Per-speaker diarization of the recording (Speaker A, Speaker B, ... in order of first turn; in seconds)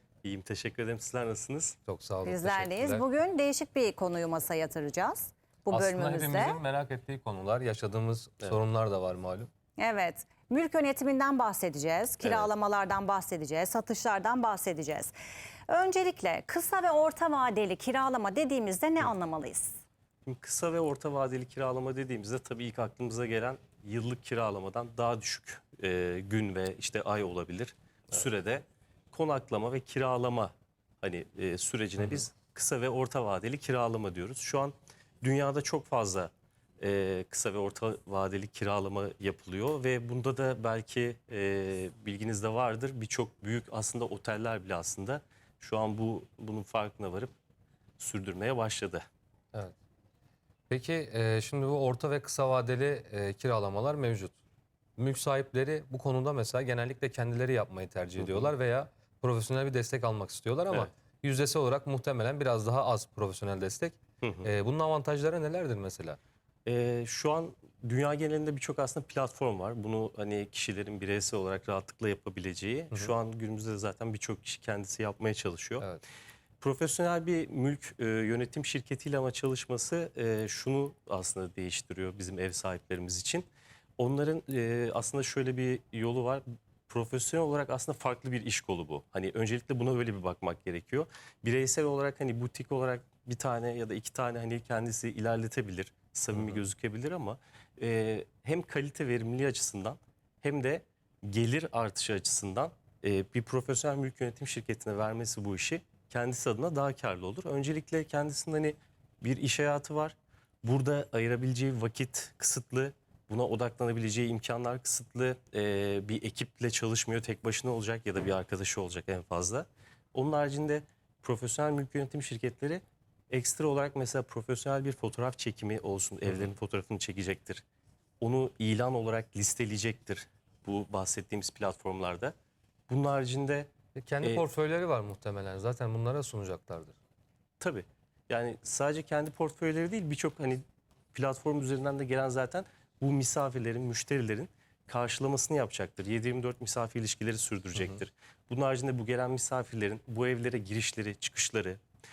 Speaker A: 0.2-1.8, 12.2-12.5, 20.2-47.3, 48.0-49.0, 58.2-58.5, 66.7-75.9, 76.6-83.5, 84.0-127.6, 128.2-132.3, 132.9-133.7, 137.6-151.8
Speaker B: 1.9-3.0, 5.7-9.5, 50.7-54.4, 55.0-66.2, 96.3-96.6, 133.9-136.9
Speaker C: 2.2-6.6, 9.8-15.1, 15.7-19.8